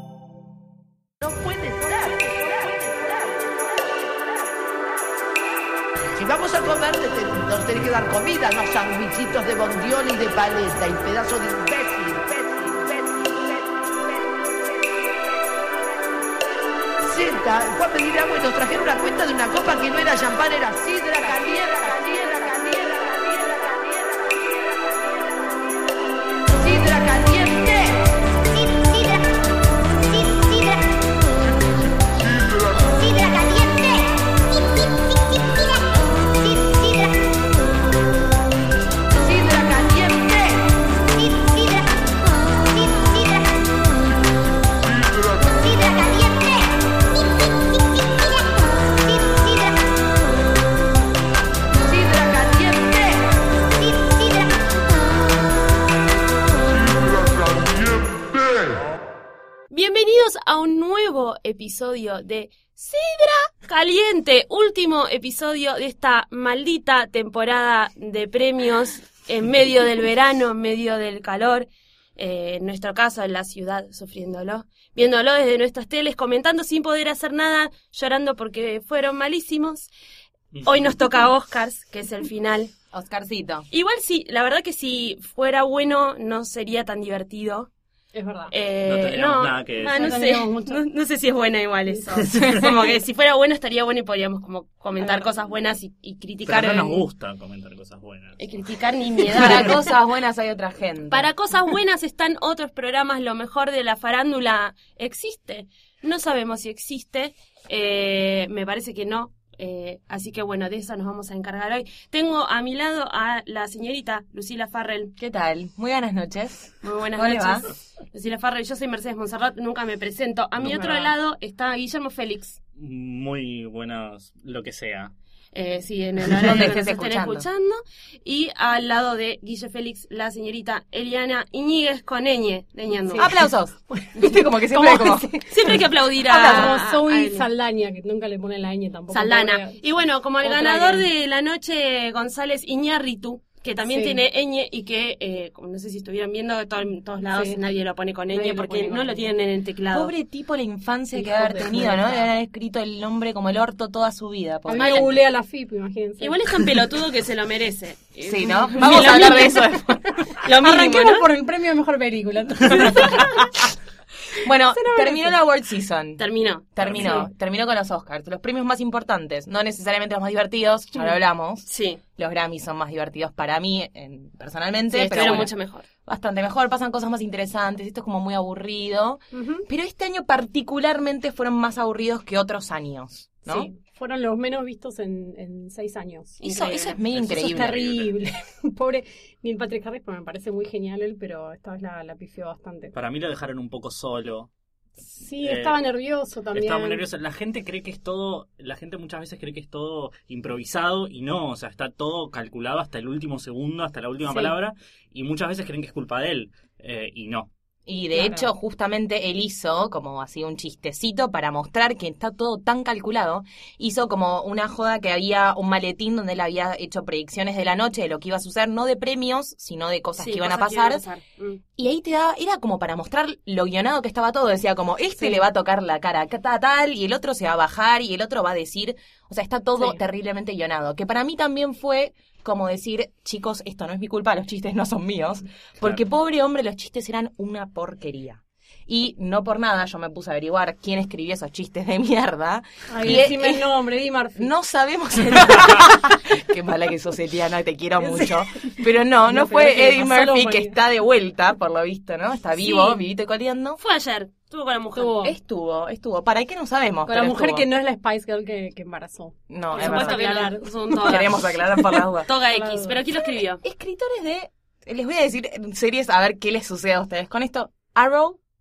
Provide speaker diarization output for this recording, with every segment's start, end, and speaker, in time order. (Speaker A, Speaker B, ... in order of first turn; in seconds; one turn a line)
Speaker A: 1.2-4.5
Speaker A: 6.2-13.6
Speaker A: 17.0-24.3
Speaker A: 26.5-28.1
Speaker A: 30.2-30.8
Speaker A: 33.2-33.9
Speaker A: 39.2-40.6
Speaker A: 51.9-53.2
Speaker B: 59.7-79.9
Speaker C: 80.5-80.9
Speaker B: 80.6-82.7
Speaker D: 82.9-83.7
Speaker B: 83.7-87.7
Speaker E: 88.1-88.5
Speaker B: 88.5-97.0
Speaker C: 88.8-90.1
Speaker E: 89.8-90.8
Speaker C: 92.2-92.7
Speaker E: 95.0-95.2
Speaker C: 96.5-98.4
Speaker B: 98.4-99.9
Speaker D: 99.3-101.3
Speaker B: 101.1-115.1
Speaker D: 115.2-117.7
Speaker B: 116.8-122.6
Speaker C: 120.6-121.1
Speaker C: 122.8-125.1
Speaker B: 125.5-133.3
Speaker D: 126.3-127.5
Speaker E: 133.1-135.6
Speaker D: 133.1-136.8
Speaker B: 135.5-137.5
Speaker E: 136.3-139.8
Speaker B: 139.1-150.1
Speaker E: 140.4-141.1
Speaker E: 143.8-144.2
Speaker E: 147.2-147.6
Speaker E: 148.3-149.3
Speaker D: 149.9-155.2
Speaker E: 151.1-152.3
Speaker E: 154.7-156.4
Speaker B: 154.7-155.1
Speaker B: 156.2-159.6
Speaker D: 158.2-160.1
Speaker E: 158.7-163.7
Speaker B: 160.4-161.3
Speaker D: 164.4-175.5
Speaker E: 164.7-165.3
Speaker B: 166.2-167.2
Speaker C: 166.8-167.3
Speaker B: 171.7-172.0
Speaker B: 174.9-175.9
Speaker D: 176.0-183.7
Speaker E: 179.3-179.7
Speaker E: 183.4-186.4
Speaker B: 186.4-187.0
Speaker D: 186.4-187.8
Speaker C: 187.1-188.1
Speaker E: 187.3-192.9
Speaker C: 192.9-194.5
Speaker E: 195.0-197.0
Speaker C: 195.4-195.8
Speaker C: 196.5-207.5
Speaker E: 204.2-204.5
Speaker D: 207.8-221.0
Speaker E: 208.1-208.5
Speaker B: 220.2-221.6
Speaker D: 221.8-243.7
Speaker E: 225.2-225.4
Speaker E: 242.9-244.5
Speaker D: 244.3-253.8
Speaker E: 248.0-250.8
Speaker B: 252.6-253.0
Speaker B: 253.8-255.2
Speaker E: 254.9-255.3
Speaker D: 255.2-257.7
Speaker E: 257.1-263.0
Speaker D: 259.5-260.4
Speaker B: 259.7-261.4
Speaker D: 261.0-262.3
Speaker B: 262.2-263.6
Speaker D: 263.6-268.4